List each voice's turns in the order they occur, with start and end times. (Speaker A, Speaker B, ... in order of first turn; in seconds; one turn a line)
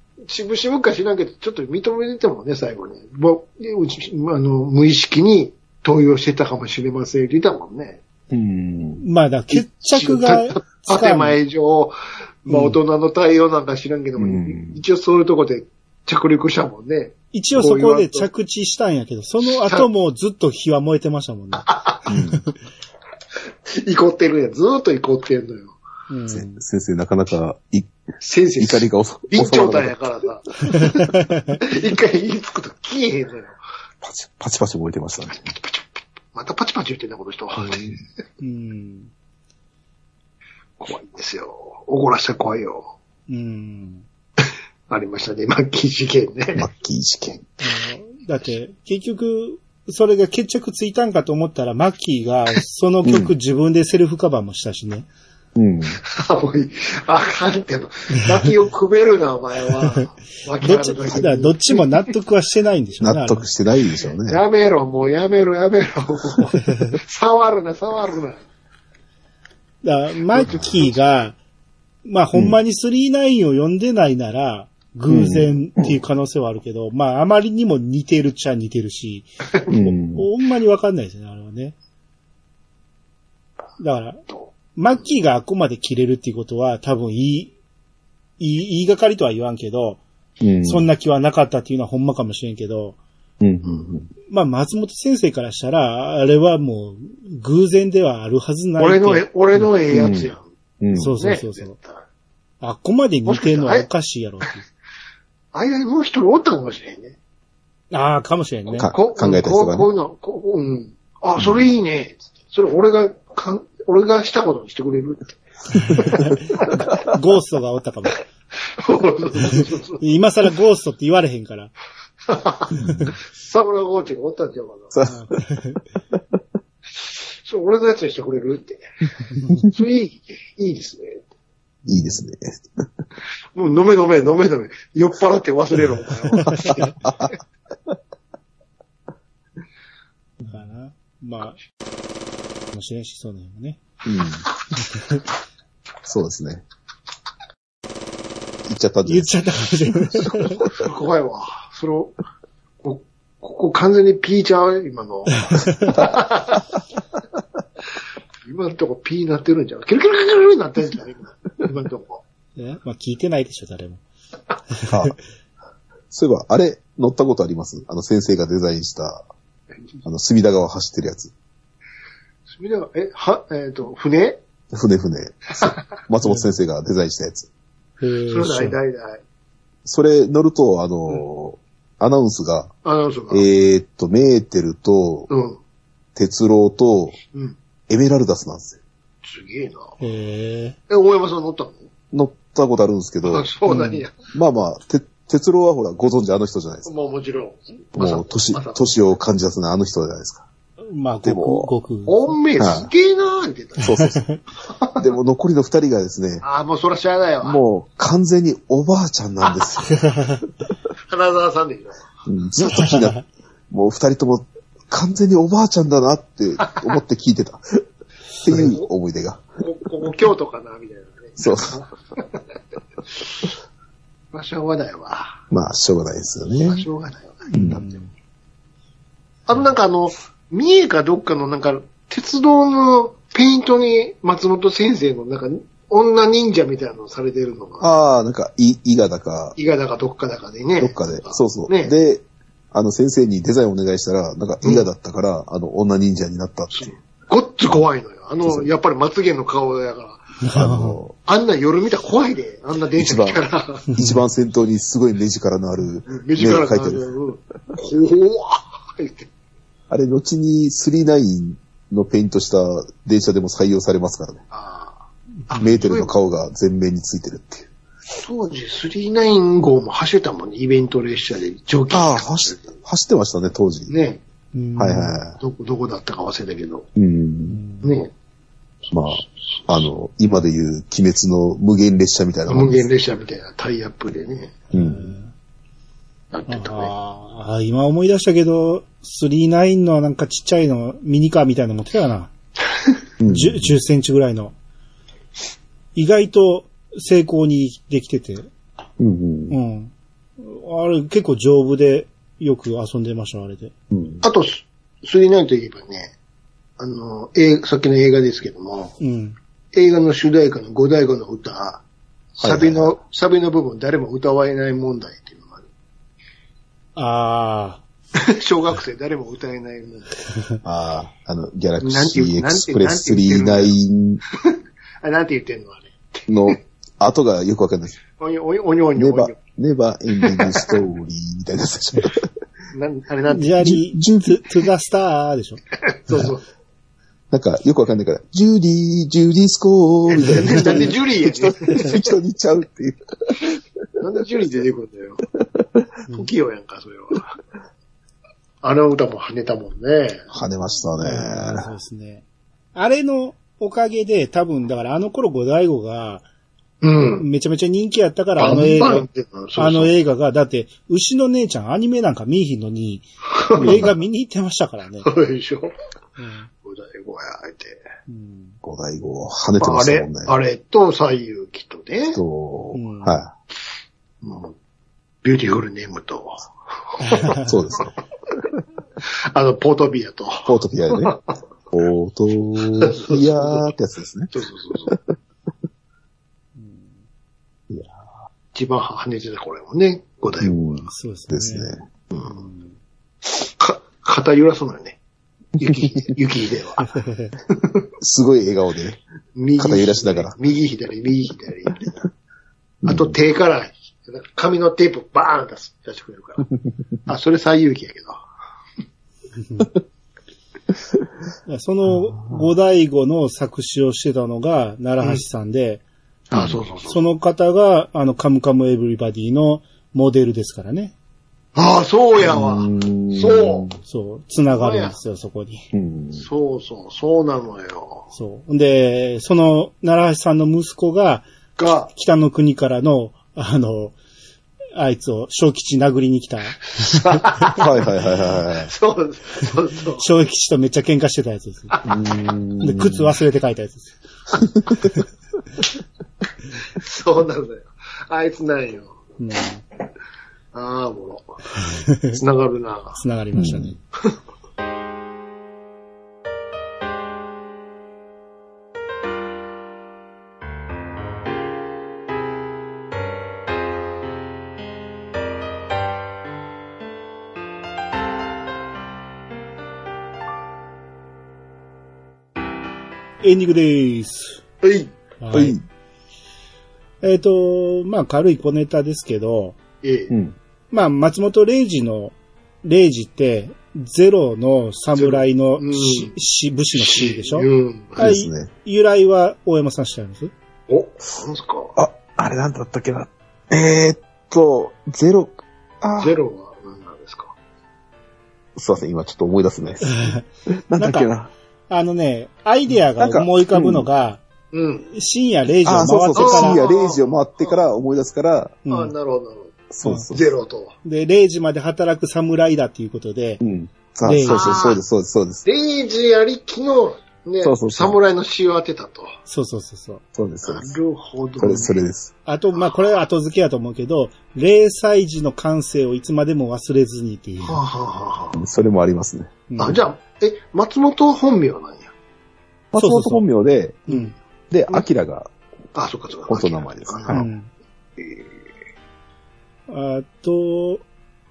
Speaker A: 0.2-8.0
Speaker B: 8.3-9.0
Speaker C: 9.0-11.4
Speaker A: 9.5-18.3
Speaker C: 12.5-12.8
Speaker B: 14.2-14.8
Speaker C: 17.3-21.7
Speaker A: 19.4-19.9
Speaker A: 21.6-22.1
Speaker B: 22.1-22.4
Speaker A: 23.7-25.8
Speaker C: 26.1-26.6
Speaker B: 26.3-27.9
Speaker A: 28.2-30.6
Speaker B: 28.6-29.9
Speaker C: 30.8-31.6
Speaker A: 31.6-33.5
Speaker B: 34.0-35.4
Speaker A: 35.3-38.0
Speaker C: 38.4-39.1
Speaker A: 40.8-42.9
Speaker C: 43.3-44.0
Speaker A: 44.9-46.7
Speaker B: 46.5-47.4
Speaker C: 47.6-55.1
Speaker B: 53.0-53.3
Speaker B: 55.5-56.0
Speaker A: 56.0-61.9
Speaker C: 60.6-63.5
Speaker B: 63.0-64.4
Speaker A: 64.3-68.4
Speaker C: 66.7-66.9
Speaker C: 69.8-71.4
Speaker A: 70.4-70.9
Speaker C: 72.0-81.7
Speaker B: 75.1-76.0
Speaker B: 79.7-80.3
Speaker C: 83.8-87.5
Speaker C: 88.4-90.0
Speaker B: 90.4-90.8
Speaker C: 90.6-93.0
Speaker B: 93.4-94.1
Speaker C: 94.3-99.6
Speaker A: 98.8-100.5
Speaker B: 99.9-101.1
Speaker C: 100.9-101.8
Speaker A: 101.2-102.0
Speaker C: 102.6-104.7
Speaker A: 103.2-103.9
Speaker A: 105.5-107.2
Speaker C: 107.9-108.9
Speaker B: 108.7-109.9
Speaker A: 108.9-115.4
Speaker B: 111.4-111.7
Speaker C: 115.7-118.2
Speaker A: 115.9-116.8
Speaker A: 118.7-120.0
Speaker C: 119.5-121.7
Speaker A: 122.3-122.8
Speaker B: 122.8-123.1
Speaker C: 122.8-123.1
Speaker A: 123.3-124.9
Speaker B: 124.9-125.4
Speaker C: 125.1-125.8
Speaker A: 127.0-128.8
Speaker A: 129.7-131.2
Speaker C: 131.8-132.2
Speaker B: 131.8-132.6
Speaker A: 133.5-136.9
Speaker C: 136.4-136.9
Speaker B: 136.6-137.3
Speaker C: 140.4-141.6
Speaker C: 142.7-143.8
Speaker B: 144.0-144.4
Speaker C: 144.9-145.2
Speaker B: 146.0-146.6
Speaker B: 148.7-149.3
Speaker C: 149.1-150.6
Speaker A: 150.4-152.2
Speaker A: 152.8-156.6
Speaker C: 155.4-156.0
Speaker A: 158.4-162.2
Speaker C: 162.6-164.0
Speaker C: 164.8-165.1
Speaker B: 164.9-165.1
Speaker B: 166.1-169.2
Speaker B: 170.0-171.3
Speaker A: 172.5-174.4
Speaker B: 174.7-177.5
Speaker C: 176.2-176.5
Speaker C: 178.0-178.8
Speaker A: 178.3-179.2
Speaker B: 179.8-182.7
Speaker A: 182.8-183.4
Speaker B: 183.3-185.3
Speaker A: 185.3-185.6
Speaker B: 186.1-187.2
Speaker B: 187.9-188.8
Speaker A: 189.2-189.9
Speaker C: 190.0-190.8
Speaker A: 190.9-191.9
Speaker B: 192.1-193.5
Speaker A: 193.2-194.1
Speaker C: 193.7-194.0
Speaker B: 194.3-196.9
Speaker A: 196.8-198.9
Speaker B: 197.9-200.4
Speaker C: 200.8-202.3
Speaker B: 201.2-201.7
Speaker A: 202.1-204.0
Speaker B: 202.6-202.9
Speaker B: 203.8-204.2
Speaker C: 204.0-204.4
Speaker A: 204.7-205.1
Speaker B: 205.0-206.4
Speaker A: 206.4-207.6
Speaker B: 207.4-210.1
Speaker C: 210.0-210.4
Speaker A: 211.1-212.1
Speaker B: 212.3-213.2
Speaker C: 212.6-213.2
Speaker B: 213.7-217.8
Speaker B: 218.4-219.4
Speaker A: 218.5-218.9
Speaker A: 219.6-222.4
Speaker B: 221.4-221.8
Speaker A: 224.3-225.4
Speaker B: 225.5-226.9
Speaker A: 226.7-227.9
Speaker C: 227.5-228.1
Speaker B: 227.5-227.8
Speaker A: 229.5-237.9
Speaker B: 237.8-239.5
Speaker A: 239.6-241.9
Speaker B: 240.8-246.9
Speaker A: 244.6-244.9
Speaker A: 246.7-250.2
Speaker C: 250.4-251.0
Speaker B: 250.5-251.1
Speaker A: 251.2-253.8
Speaker B: 253.0-253.4
Speaker C: 253.9-254.2
Speaker B: 253.9-257.1
Speaker A: 256.1-259.3
Speaker B: 259.9-264.4
Speaker A: 264.5-266.1
Speaker C: 265.5-265.8
Speaker B: 265.6-267.7
Speaker A: 268.1-272.7
Speaker B: 271.9-273.9
Speaker A: 273.9-274.2
Speaker C: 274.5-275.2
Speaker B: 274.8-275.4
Speaker A: 275.4-276.9
Speaker B: 276.9-277.6
Speaker C: 277.5-278.0
Speaker A: 277.8-278.1
Speaker A: 278.9-279.9
Speaker B: 278.9-282.9
Speaker A: 282.5-284.6
Speaker C: 284.7-285.3
Speaker B: 284.7-285.1
Speaker A: 286.3-286.9
Speaker C: 286.5-292.3
Speaker B: 293.2-293.7
Speaker C: 293.3-294.5
Speaker C: 295.9-298.5
Speaker B: 299.0-299.5
Speaker C: 299.5-303.7
Speaker B: 303.9-304.2
Speaker A: 304.2-306.1
Speaker A: 306.8-308.9
Speaker C: 309.0-309.4
Speaker A: 309.7-311.8
Speaker A: 312.4-315.6
Speaker B: 312.4-312.9
Speaker C: 316.9-317.8
Speaker A: 318.2-320.1
Speaker B: 320.6-324.2
Speaker A: 321.8-323.8
Speaker A: 324.4-326.6
Speaker B: 326.3-328.0
Speaker A: 328.2-329.4
Speaker B: 329.0-332.3
Speaker A: 330.2-330.7
Speaker A: 332.7-333.7
Speaker C: 333.3-335.6
Speaker B: 333.6-334.4
Speaker A: 335.8-336.4
Speaker B: 337.3-343.6
Speaker A: 340.1-342.1
Speaker A: 344.0-345.2
Speaker A: 346.1-347.3
Speaker A: 348.6-350.2
Speaker B: 350.3-351.7
Speaker C: 351.0-352.2
Speaker C: 352.7-356.2
Speaker A: 356.8-357.3
Speaker C: 357.2-365.1
Speaker A: 358.4-359.9
Speaker A: 363.3-363.8
Speaker B: 363.6-363.9
Speaker A: 365.0-365.7
Speaker C: 366.2-366.5
Speaker A: 366.6-367.8
Speaker C: 368.1-368.6
Speaker B: 368.6-370.3
Speaker A: 369.6-372.2
Speaker B: 372.1-373.3
Speaker C: 372.7-373.2
Speaker A: 374.2-374.5
Speaker A: 375.2-377.9
Speaker C: 377.0-377.5
Speaker B: 377.3-377.9
Speaker A: 379.0-381.3
Speaker B: 380.4-381.1
Speaker B: 381.7-384.3
Speaker A: 382.8-383.7
Speaker A: 384.3-384.9
Speaker C: 386.6-386.9
Speaker A: 388.5-390.9
Speaker B: 390.4-391.8
Speaker C: 390.9-391.7
Speaker A: 393.3-395.0
Speaker A: 395.6-396.9
Speaker C: 396.9-397.3
Speaker A: 397.5-397.8
Speaker B: 398.0-399.0
Speaker A: 399.4-402.0
Speaker B: 399.6-400.3
Speaker B: 402.8-403.1
Speaker A: 402.9-406.5
Speaker A: 407.1-408.2
Speaker C: 411.5-415.8
Speaker B: 411.9-412.5
Speaker A: 416.3-417.1
Speaker B: 416.3-416.6
Speaker C: 416.9-420.9
Speaker A: 421.6-423.7
Speaker B: 422.2-423.8
Speaker C: 423.8-425.7
Speaker A: 424.5-425.0
Speaker B: 425.7-426.2
Speaker A: 426.1-428.1
Speaker C: 428.1-431.3
Speaker A: 431.6-431.9
Speaker C: 431.9-433.9
Speaker C: 434.7-437.2
Speaker A: 436.8-437.7
Speaker B: 437.6-438.7
Speaker A: 438.5-440.0
Speaker C: 440.0-441.8
Speaker B: 441.9-443.1
Speaker C: 442.6-443.9
Speaker A: 446.8-448.9
Speaker C: 449.2-449.6
Speaker A: 450.5-451.3
Speaker C: 451.6-452.2
Speaker A: 452.1-453.0
Speaker C: 452.9-453.8
Speaker B: 453.4-453.7
Speaker C: 473.2-474.4
Speaker A: 474.6-474.9
Speaker C: 475.2-475.6
Speaker B: 475.3-475.6
Speaker C: 477.0-479.6
Speaker A: 479.8-480.1
Speaker B: 480.1-480.4
Speaker C: 480.7-490.3
Speaker A: 484.9-486.1
Speaker A: 486.7-488.0
Speaker B: 488.0-488.5
Speaker A: 490.7-491.7
Speaker B: 491.7-496.1
Speaker A: 496.0-497.3
Speaker B: 498.6-500.0
Speaker C: 499.9-500.2
Speaker B: 500.7-501.3
Speaker C: 500.8-501.1
Speaker C: 501.7-504.2
Speaker B: 503.0-503.9
Speaker A: 504.5-504.9
Speaker C: 504.9-506.6
Speaker B: 505.6-508.6
Speaker A: 506.1-507.5
Speaker C: 508.6-508.9
Speaker A: 508.7-509.5
Speaker B: 509.7-510.3
Speaker C: 509.8-510.1
Speaker A: 510.1-510.7
Speaker C: 510.8-513.4
Speaker B: 513.4-515.5
Speaker C: 514.0-514.6
Speaker A: 514.3-514.8
Speaker A: 515.5-519.1
Speaker B: 517.4-518.0
Speaker C: 519.3-520.0
Speaker B: 520.1-520.7
Speaker A: 520.4-521.8
Speaker B: 521.4-522.1
Speaker C: 522.2-527.6
Speaker A: 527.4-528.4
Speaker B: 528.3-529.8
Speaker C: 529.5-529.8
Speaker A: 529.6-531.9
Speaker B: 532.7-533.8
Speaker C: 532.8-533.2
Speaker A: 533.9-534.1
Speaker C: 533.9-534.1
Speaker B: 534.5-535.3
Speaker A: 535.7-537.1
Speaker B: 536.3-537.3
Speaker C: 537.1-537.5
Speaker C: 539.7-540.8